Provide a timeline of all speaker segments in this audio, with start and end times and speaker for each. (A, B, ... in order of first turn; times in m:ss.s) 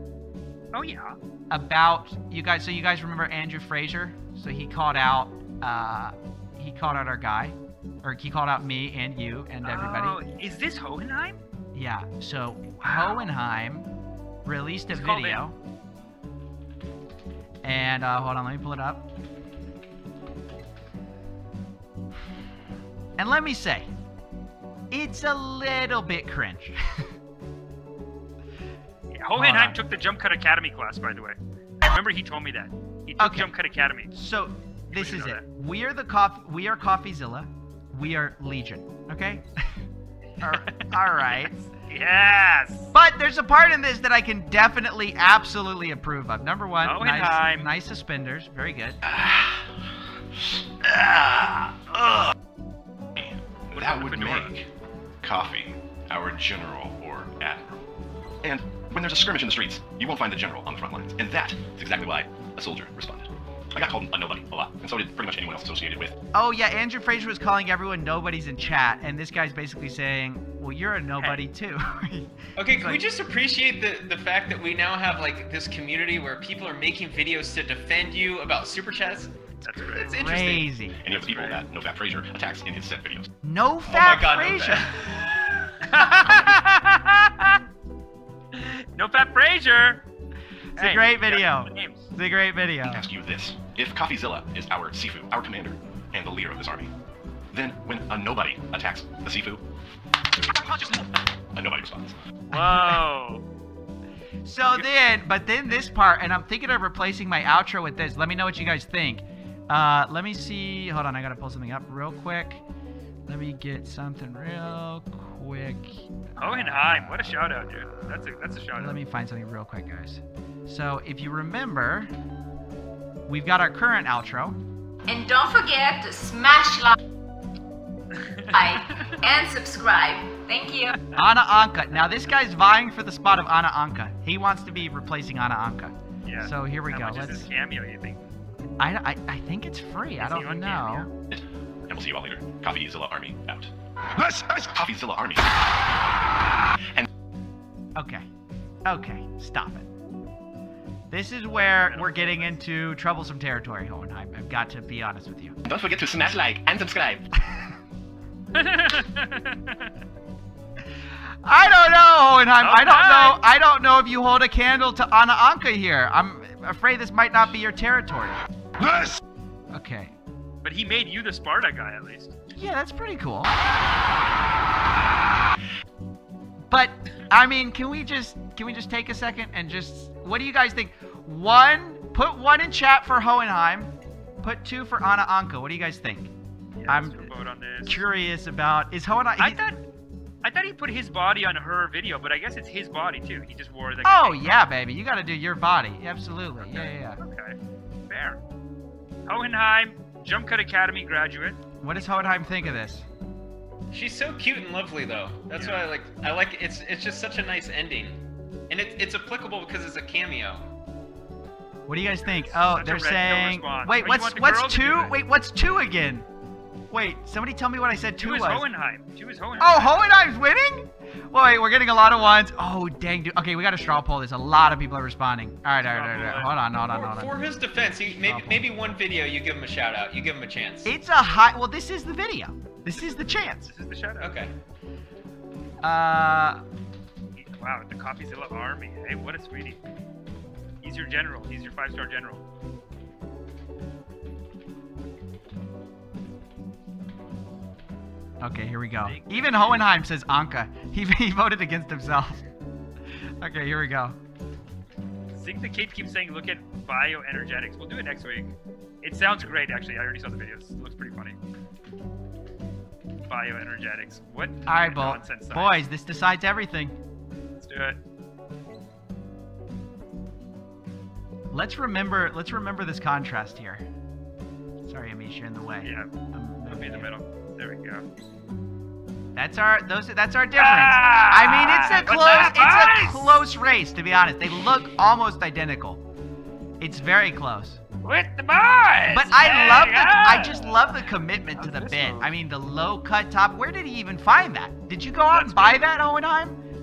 0:00.7-0:01.2 A
0:01.5-0:10.2 B
0:09.6-0:11.4 A
0:11.7-0:13.9 B
0:12.8-0:13.3 A
0:14.4-0:15.6 B
0:14.9-0:15.4 A
0:17.6-0:19.1 B
0:23.2-0:23.9 B
0:24.9-0:27.1 B
0:29.1-0:34.1 A
0:29.4-0:29.8 B
0:33.2-0:33.5 B
0:34.1-0:39.7 B
0:34.9-0:35.4 A
0:40.4-0:41.5 B
0:40.4-0:42.9 A
0:42.9-0:49.0 B
0:46.8-0:47.7 A
0:49.1-0:49.7 C
0:50.8-0:52.3 C
0:53.1-0:54.7 C
0:53.7-0:54.5 A
0:55.2-0:57.8 C
0:58.4-1:06.2 C
1:06.3-1:13.0 B
1:12.6-1:21.6 D
1:19.6-1:20.1 A
1:20.1-1:21.0 B
1:21.0-1:23.3 C
1:23.4-1:24.9 B
1:23.9-1:25.2 D
1:25.8-1:27.6 A
1:28.5-1:30.0 A
1:30.8-1:32.1 A
1:30.8-1:33.0 B
1:32.8-1:36.9 C
1:37.5-1:39.6 C
1:40.6-1:42.2 C
1:42.5-1:43.4 A
1:42.5-1:43.0 B
1:44.4-1:52.6 B
1:53.2-2:02.1 B
1:56.4-1:59.0 A
2:03.3-2:04.6 B
2:05.1-2:07.0 E
2:08.2-2:09.2 A
2:08.5-2:10.9 E
2:11.1-2:17.5 B
2:16.2-2:18.3 A
2:18.8-2:21.1 B
2:20.2-2:21.1 A
2:21.3-2:25.5 C
2:28.0-2:28.2 B
2:28.8-2:29.9 B
2:31.1-2:35.6 B
2:31.8-2:32.6 A
2:35.6-2:37.2 C
2:38.5-2:39.9 A
2:41.4-2:48.4 B
2:42.6-2:43.4 A
2:49.7-2:50.1 B
2:50.6-2:52.4 A
2:52.6-2:53.5 B
2:56.7-3:06.3 B
3:06.8-3:08.0 A
3:06.9-3:07.3 B
3:07.8-3:09.6 B
3:09.4-3:09.8 A
3:10.4-3:14.6 A
3:14.0-3:17.2 B
3:16.6-3:17.6 A
3:18.1-3:18.4 A
3:19.3-3:21.6 A
3:21.8-3:23.0 B
3:23.9-3:28.2 D
3:25.6-3:25.9 A
3:28.7-3:30.7 D
3:31.9-3:36.2 B
3:32.2-3:35.2 A
3:36.9-3:38.7 B
3:38.2-3:40.0 A
3:39.6-3:47.4 B
3:45.8-3:46.6 A
3:46.8-3:50.9 D
3:48.2-3:48.6 B
3:50.8-3:53.7 B
3:53.0-3:54.3 A
3:54.2-3:54.5 D
3:55.8-3:56.6 B
3:57.4-3:59.8 A
4:00.8-4:02.4 A
4:08.4-4:12.4 B
4:09.0-4:09.8 A
4:13.4-4:14.2 B
4:15.3-4:21.4 A
4:23.2-4:25.8 A
4:24.6-4:26.9 B
4:27.6-4:28.0 A
4:31.5-4:33.8 B
4:34.8-4:37.1 B
4:35.8-4:36.1 A
4:36.7-4:38.0 A
4:39.3-4:46.0 B
4:40.6-4:43.4 A
4:46.8-4:47.8 B
4:48.0-4:52.3 A
4:49.1-4:56.6 B
4:55.3-4:55.9 A